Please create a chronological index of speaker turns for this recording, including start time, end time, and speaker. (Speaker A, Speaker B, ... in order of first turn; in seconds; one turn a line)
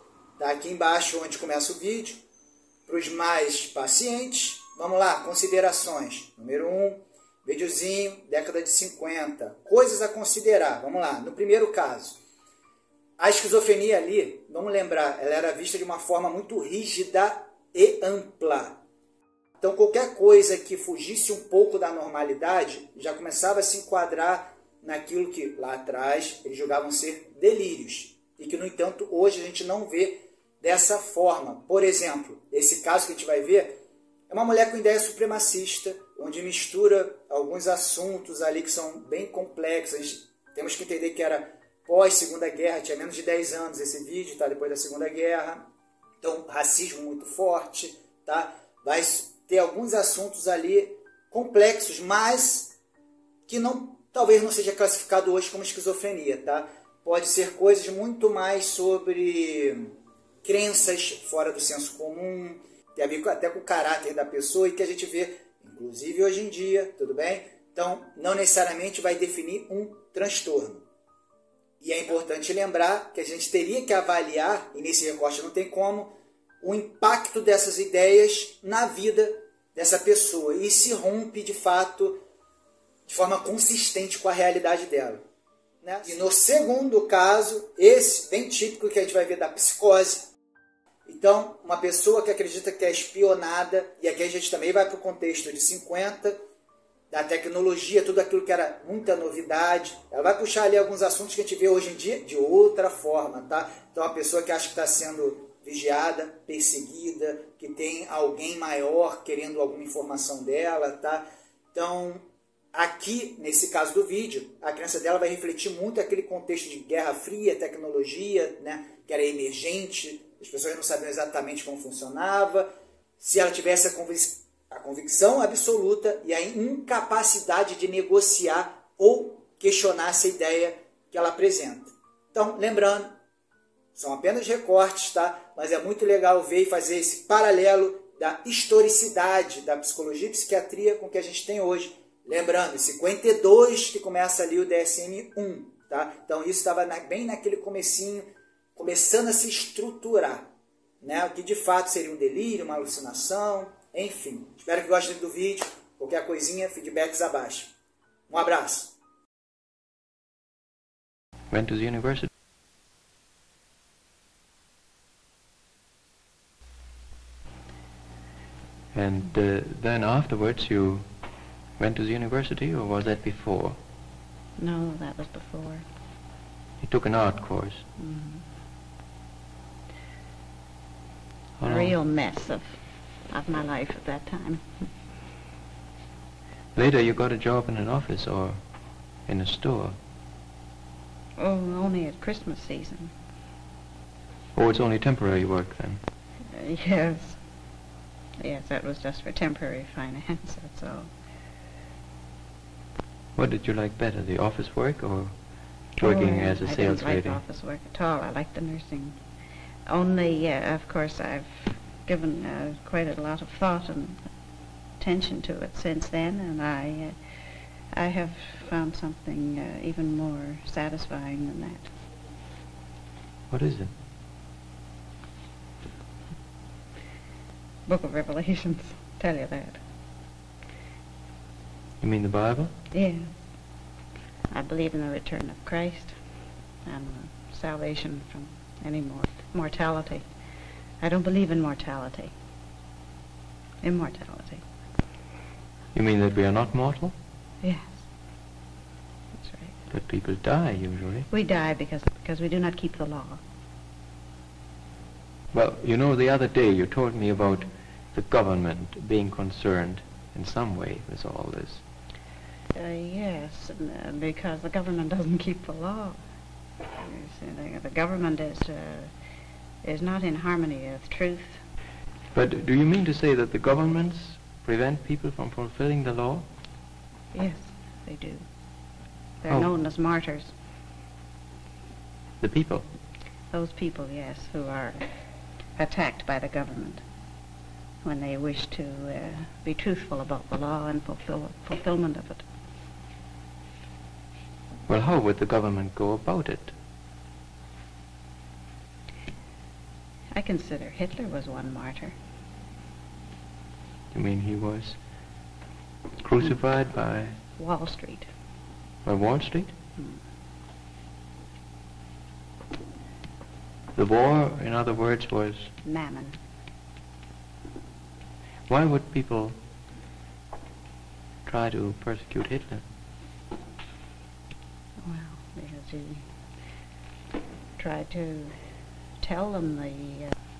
Speaker A: 0.4-2.2
Speaker A: 2.9-12.2
Speaker A: 13.2-18.8
Speaker A: 19.6-45.7
Speaker A: 46.2-52.8
Speaker A: 53.5-70.8
Speaker A: 71.8-82.2
Speaker A: 83.1-85.2
Speaker A: 85.8-90.3
Speaker A: 91.0-96.4
Speaker A: 97.1-122.7
Speaker A: 123.2-133.2
Speaker A: 133.9-157.7
Speaker A: 158.3-158.9
Speaker B: 161.5-162.3
Speaker B: 168.9-171.1
Speaker B: 171.8-173.8
Speaker C: 174.6-175.8
Speaker B: 176.8-177.8
Speaker C: 178.0-178.4
Speaker B: 181.6-181.9
Speaker C: 181.6-182.8
Speaker C: 183.3-184.8
Speaker B: 186.7-188.6
Speaker B: 189.3-189.9
Speaker C: 191.4-193.1
Speaker B: 194.5-196.0
Speaker C: 196.5-197.4
Speaker C: 198.4-201.1
Speaker B: 203.3-205.3
Speaker B: 205.9-207.4
Speaker C: 206.0-209.2
Speaker C: 209.9-214.2
Speaker C: 215.0-217.2
Speaker C: 217.9-221.9
Speaker B: 223.5-223.9
Speaker C: 227.9-229.8
Speaker B: 232.0-232.7
Speaker C: 232.9-233.3
Speaker C: 234.5-236.2
Speaker C: 236.8-240.2
Speaker C: 241.0-242.3
Speaker C: 243.8-244.6
Speaker B: 245.9-247.1
Speaker C: 247.6-248.0
Speaker C: 249.4-249.8
Speaker B: 249.9-251.3
Speaker C: 251.3-253.4
Speaker B: 255.5-261.8
Speaker C: 262.7-266.2
Speaker C: 267.0-269.1
Speaker C: 269.8-271.6
Speaker B: 272.3-276.4
Speaker C: 277.3-278.4
Speaker C: 279.4-280.5
Speaker B: 282.4-282.9
Speaker C: 283.5-285.1
Speaker C: 285.8-287.0
Speaker C: 288.0-292.4
Speaker B: 294.9-296.7
Speaker C: 300.3-302.1
Speaker B: 304.1-305.0
Speaker B: 306.2-307.4
Speaker C: 307.6-308.3
Speaker B: 309.0-309.7
Speaker B: 313.9-315.7
Speaker C: 315.8-316.4
Speaker B: 318.7-319.6
Speaker B: 321.4-322.8
Speaker C: 325.0-326.2
Speaker C: 327.8-328.5
Speaker C: 329.2-330.3